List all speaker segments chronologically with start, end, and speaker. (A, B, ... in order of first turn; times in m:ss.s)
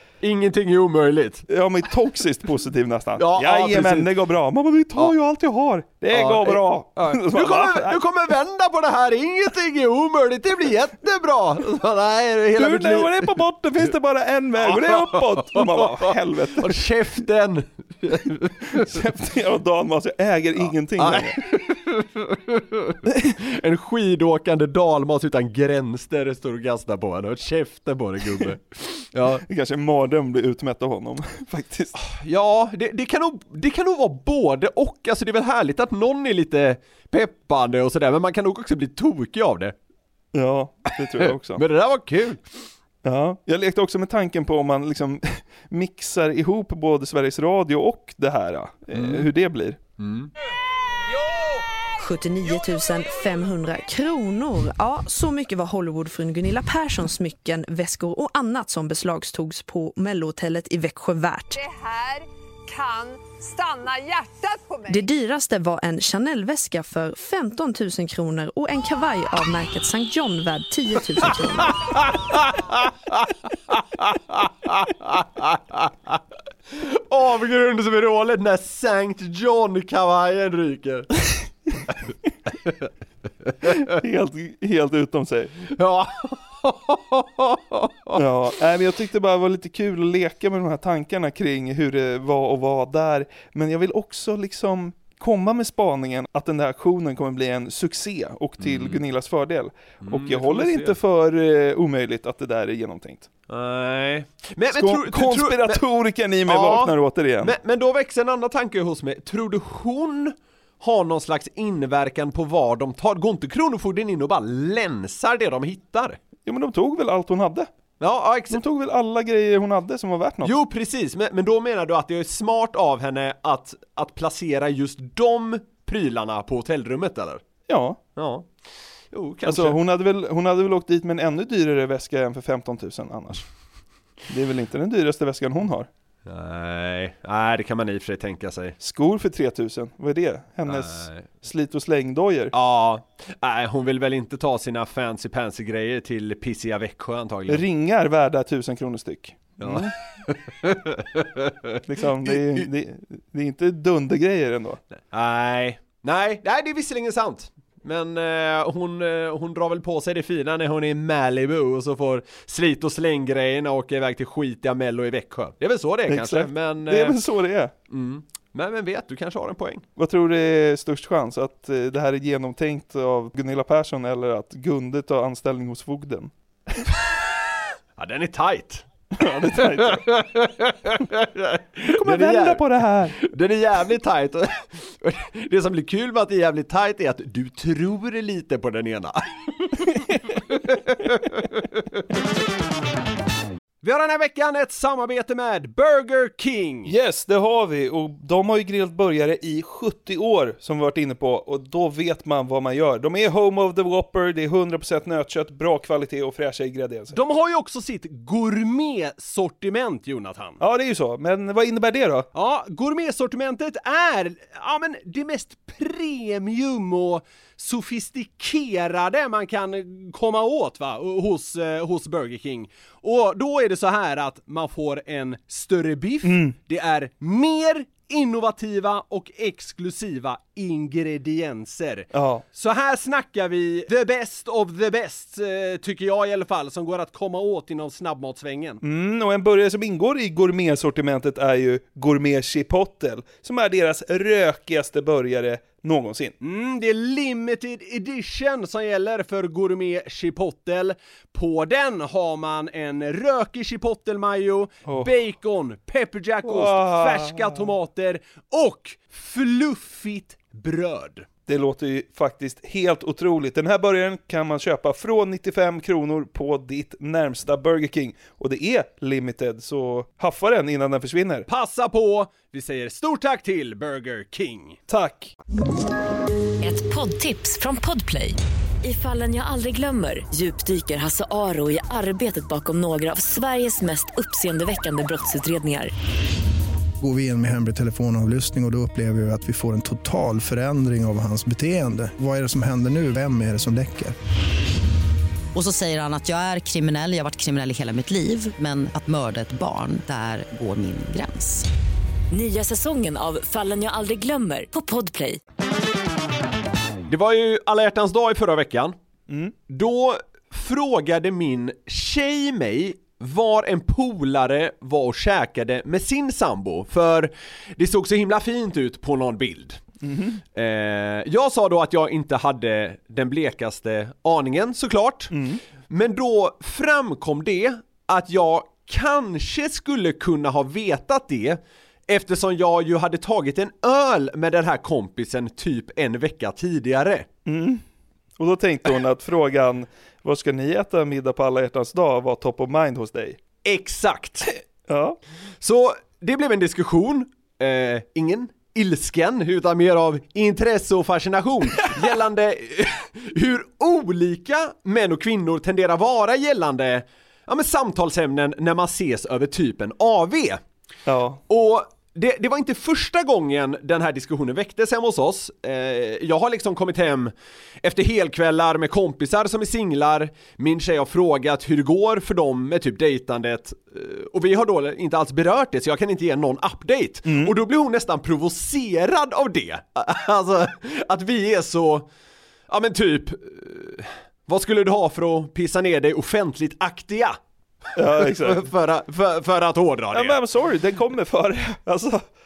0:00.2-0:01.5 A
0:01.5-0:08.0 B
0:03.2-0:04.1 A
0:06.1-0:13.4 A
0:12.6-0:16.8 B
0:14.6-0:19.0 A
0:18.7-0:21.4 B
0:21.0-0:29.4 A
0:23.0-0:23.3 B
0:29.4-0:31.9 B
0:31.9-0:39.7 A
0:40.3-0:41.6 B
0:41.5-0:42.6 A
0:43.0-0:49.8 B
0:48.9-0:49.3 A
0:50.0-0:50.3 A
0:52.0-1:01.6 C
1:01.5-1:05.0 D
1:04.9-1:11.8 C
1:11.9-1:16.1 A
1:16.7-1:21.1 A
1:23.5-1:23.8 A
1:23.6-1:25.6 B
1:25.7-1:28.2 A
1:28.1-1:43.3 B
1:38.6-1:39.0 A
1:40.0-1:41.0 A
1:43.5-1:45.8 A
1:44.7-1:47.5 B
1:46.5-1:56.2 A
1:56.4-1:57.7 B
1:58.0-1:58.6 A
1:58.5-2:00.5 B
2:00.4-2:07.4 A
2:07.7-2:08.0 B
2:08.2-2:08.5 A
2:09.1-2:09.8 A
2:09.4-2:13.4 B
2:14.3-2:15.9 B
2:16.2-2:18.8 A
2:18.8-2:22.5 B
2:20.7-2:21.3 A
2:22.5-2:27.6 A
2:27.5-2:29.9 B
2:29.6-2:32.7 A
2:31.8-2:34.8 B
2:35.1-2:47.2 A
2:46.1-2:47.7 B
2:47.9-2:49.9 A
2:50.0-2:56.8 B
2:58.0-2:58.8 A
2:59.1-3:00.0 B
2:59.6-3:12.0 A
3:01.9-3:03.2 B
3:09.9-3:10.4 B
3:13.8-3:16.9 A
3:16.8-3:27.2 B
3:27.1-3:30.6 A
3:30.6-3:32.3 B
3:32.3-3:58.8 A
3:46.2-3:46.6 B
3:52.1-3:52.4 B
3:58.8-4:06.3 B
4:06.4-4:21.3 A
4:14.8-4:15.1 B
4:16.4-4:17.7 B
4:21.5-4:31.5 B
4:31.5-4:34.8 A
4:34.9-4:35.3 B
4:36.6-4:45.9 E
4:47.0-4:54.1 F
4:55.5-5:01.6 G
5:02.3-5:05.4 E
5:07.1-5:08.9 A
5:09.3-5:09.5 B
5:09.7-5:19.8 A
5:20.0-5:20.4 B
5:20.5-5:37.3 A
5:25.3-5:25.6 B
5:37.4-5:37.8 B
5:38.4-5:43.4 B
5:43.6-5:44.5 A
5:44.9-5:45.2 B
5:45.6-6:00.6 A
6:01.0-6:01.4 B
6:01.5-6:22.1 A
6:17.2-6:17.5 B
6:22.7-6:27.4 A
6:28.0-6:28.6 B
6:28.0-6:30.4 A
6:30.1-6:32.3 B